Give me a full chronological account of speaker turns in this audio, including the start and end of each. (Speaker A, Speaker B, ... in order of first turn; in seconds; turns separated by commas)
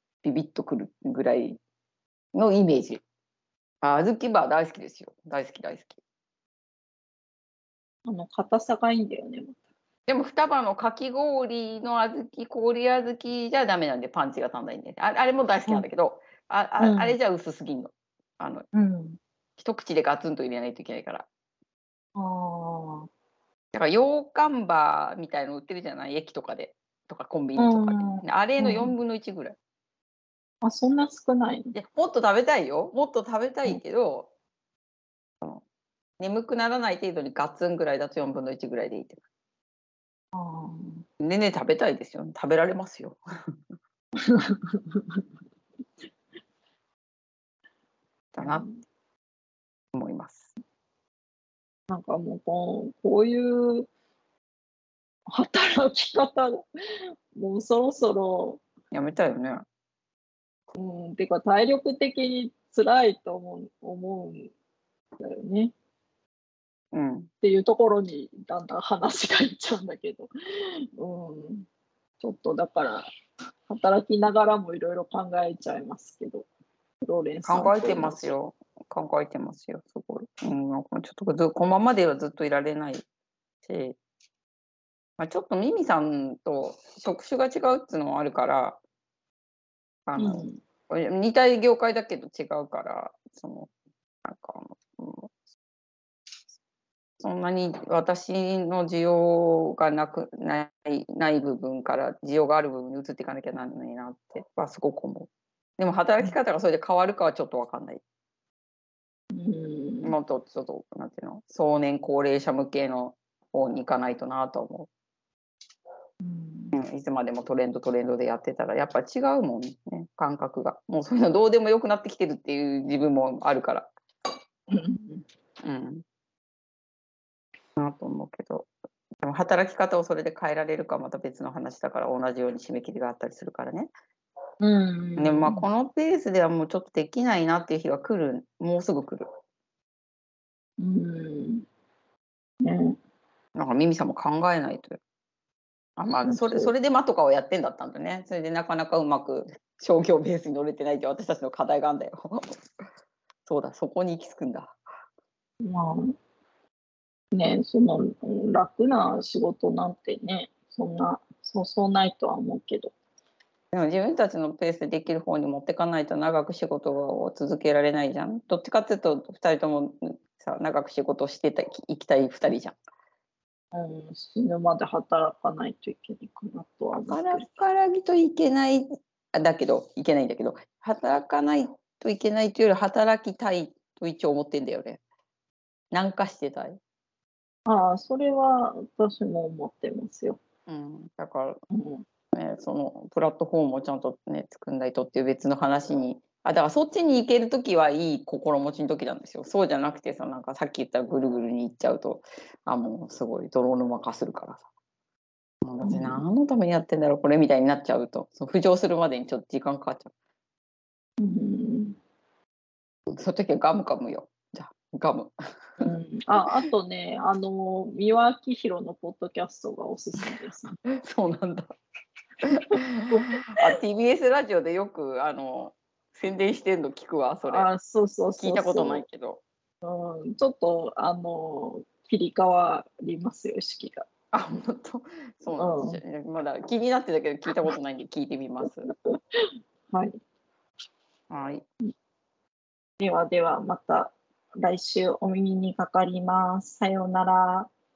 Speaker A: 0.2-1.6, Speaker A: 2.3-3.0, Speaker A: 3.8-6.0, Speaker B: 8.1-9.6, Speaker A: 10.1-18.7, Speaker B: 16.8-17.2, Speaker B: 18.7-19.2, Speaker A: 19.6-21.3, Speaker B: 22.2-23.1, Speaker A: 23.7-29.6, Speaker B: 27.6-28.9, Speaker B: 30.6-31.8, Speaker A: 31.7-34.3, Speaker A: 36.2-39.2, Speaker B: 40.3-41.0, Speaker A: 41.2-43.2, Speaker B: 44.2-45.2, Speaker A: 48.3-48.7, Speaker B: 48.4-48.8, Speaker A: 49.9-50.5, Speaker B: 51.9-53.9, Speaker B: 55.3-56.6, Speaker B: 57.3-58.6, Speaker A: 58.9-59.6, Speaker B: 60.8-64.5, Speaker B: 65.2-65.7, Speaker A: 66.9-67.3, Speaker B: 67.4-70.3, Speaker B: 71.0-71.7, Speaker B: 72.2-73.1, Speaker B: 73.7-76.5, Speaker B: 77.0-78.2, Speaker A: 77.5-83.0, Speaker A: 83.6-84.0, Speaker A: 85.2-88.8, Speaker A: 90.1-93.7, Speaker B: 90.2-90.6, Speaker A: 94.2-95.3, Speaker A: 97.2-108.0, Speaker B: 109.3-110.2, Speaker A: 110.0-114.9, Speaker B: 116.2-116.7, Speaker A: 116.7-123.9, Speaker B: 124.7-125.2, Speaker A: 125.6-126.0, Speaker A: 127.8-128.7, Speaker A: 129.2-133.9, Speaker B: 134.6-135.6, Speaker A: 135.2-139.3, Speaker B: 140.8-141.7, Speaker B: 142.6-143.0, Speaker A: 143.6-145.0, Speaker A: 146.0-152.4, Speaker B: 146.3-146.7, Speaker A: 153.5-154.8, Speaker B: 155.6-156.1, Speaker B: 157.3-162.9, Speaker A: 163.7-172.8, Speaker B: 173.7-177.5, Speaker A: 176.9-185.0, Speaker A: 185.9-186.8, Speaker B: 187.7-190.4, Speaker A: 190.7-191.6, Speaker B: 191.7-192.0, Speaker A: 192.3-204.7, Speaker A: 205.6-210.1, Speaker B: 205.8-206.2, Speaker B: 211.2-212.0, Speaker A: 213.1-215.8, Speaker B: 215.8-220.8, Speaker A: 220.9-221.7, Speaker A: 222.4-227.7, Speaker B: 227.5-229.1, Speaker A: 228.4-229.4, Speaker B: 229.8-234.1, Speaker A: 234.3-238.9, Speaker B: 235.6-236.0, Speaker B: 238.6-239.0, Speaker B: 239.9-240.2, Speaker A: 241.3-241.6, Speaker B: 243.0-247.7